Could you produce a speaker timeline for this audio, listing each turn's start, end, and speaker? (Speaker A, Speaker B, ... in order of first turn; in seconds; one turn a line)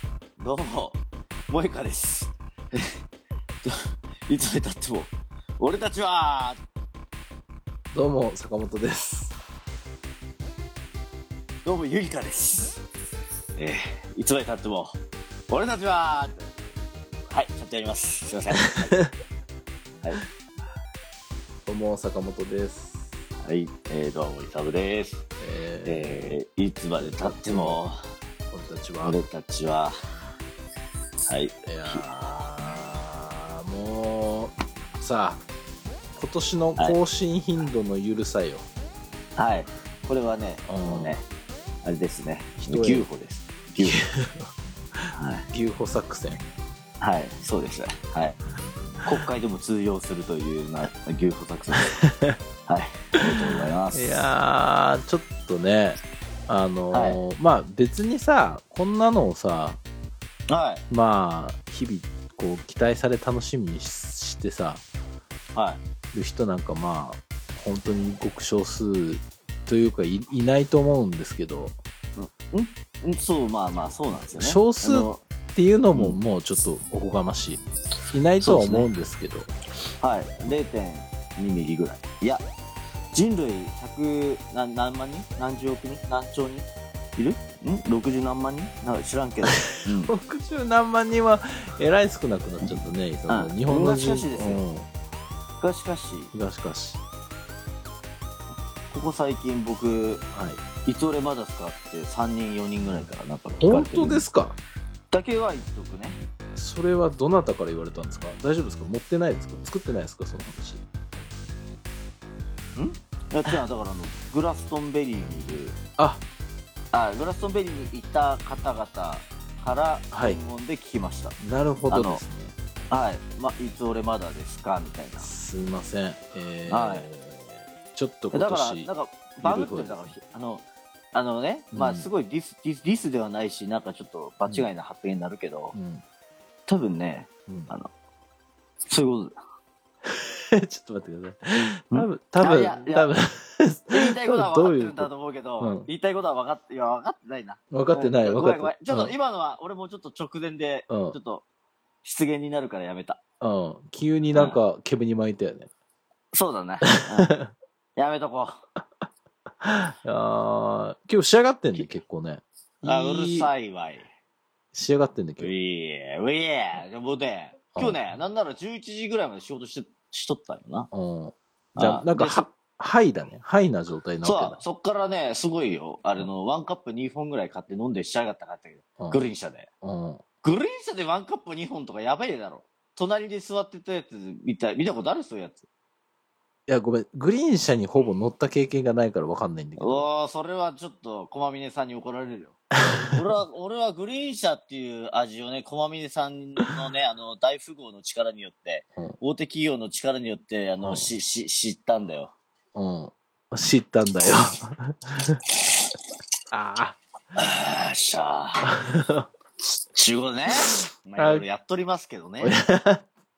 Speaker A: 0.4-3.0
Speaker A: 3.6-6.6
Speaker B: 7.9-9.3
Speaker A: 11.6-12.8
Speaker A: 13.6-15.0
Speaker A: 15.5-16.5
Speaker A: 17.3-19.0
Speaker B: 18.6-19.1
Speaker B: 21.7-23.1
Speaker A: 23.4-25.2
Speaker B: 25.4-26.3
Speaker A: 25.8-27.9
Speaker B: 27.0-27.8
Speaker B: 28.5-29.2
Speaker A: 29.0-29.9
Speaker A: 31.3-32.0
Speaker B: 31.6-35.4
Speaker B: 36.2-38.7
Speaker A: 39.4-41.2
Speaker B: 40.6-41.2
Speaker A: 41.8-44.0
Speaker B: 42.6-43.1
Speaker B: 43.8-44.5
Speaker A: 45.1-45.5
Speaker B: 45.5-46.4
Speaker A: 47.0-48.4
Speaker A: 49.0-51.9
Speaker B: 51.7-52.4
Speaker A: 52.7-54.3
Speaker B: 53.2-59.8
Speaker A: 56.9-57.2
Speaker A: 60.5-60.8
Speaker B: 60.9-64.8
Speaker A: 65.5-65.8
Speaker B: 66.1-71.8
Speaker A: 72.2-75.2
Speaker B: 74.3-79.5
Speaker A: 78.4-78.9
Speaker A: 80.0-82.4
Speaker A: 83.1-90.1
Speaker B: 89.5-94.9
Speaker A: 93.3-94.6
Speaker A: 95.6-96.3
Speaker B: 96.3-97.0
Speaker A: 98.9-100.2
Speaker B: 100.3-100.6
Speaker A: 100.8-104.2
Speaker B: 103.6-104.6
Speaker A: 105.1-106.2
Speaker B: 106.5-110.8
Speaker A: 112.8-115.8
Speaker A: 116.9-121.3
Speaker B: 120.1-120.4
Speaker B: 121.4-122.5
Speaker A: 121.9-122.2
Speaker A: 122.9-125.3
Speaker B: 125.2-128.9
Speaker A: 126.7-127.1
Speaker A: 128.3-135.7
Speaker B: 129.4-130.1
Speaker B: 131.7-132.1
Speaker B: 135.7-136.0
Speaker A: 136.7-137.9
Speaker A: 138.8-139.3
Speaker B: 140.1-145.9
Speaker A: 141.9-143.1
Speaker A: 143.9-151.4
Speaker B: 147.7-149.1
Speaker B: 150.9-151.2
Speaker A: 152.0-153.2
Speaker B: 153.4-155.7
Speaker A: 156.3-157.3
Speaker B: 156.8-157.5
Speaker A: 157.9-158.6
Speaker B: 159.6-163.5
Speaker A: 162.8-164.1
Speaker B: 164.7-165.5
Speaker A: 165.4-170.9
Speaker B: 167.7-168.0
Speaker B: 170.9-174.6
Speaker A: 171.8-172.4
Speaker A: 174.2-179.7
Speaker B: 179.0-179.3
Speaker B: 179.8-180.2
Speaker A: 180.4-185.7
Speaker B: 186.7-190.1
Speaker A: 189.8-202.3
Speaker B: 192.7-193.2
Speaker B: 200.8-201.1
Speaker B: 202.7-205.4
Speaker B: 206.5-207.0
Speaker A: 207.3-208.7
Speaker B: 208.6-209.3
Speaker A: 209.9-212.5
Speaker B: 210.5-211.4
Speaker B: 212.4-213.1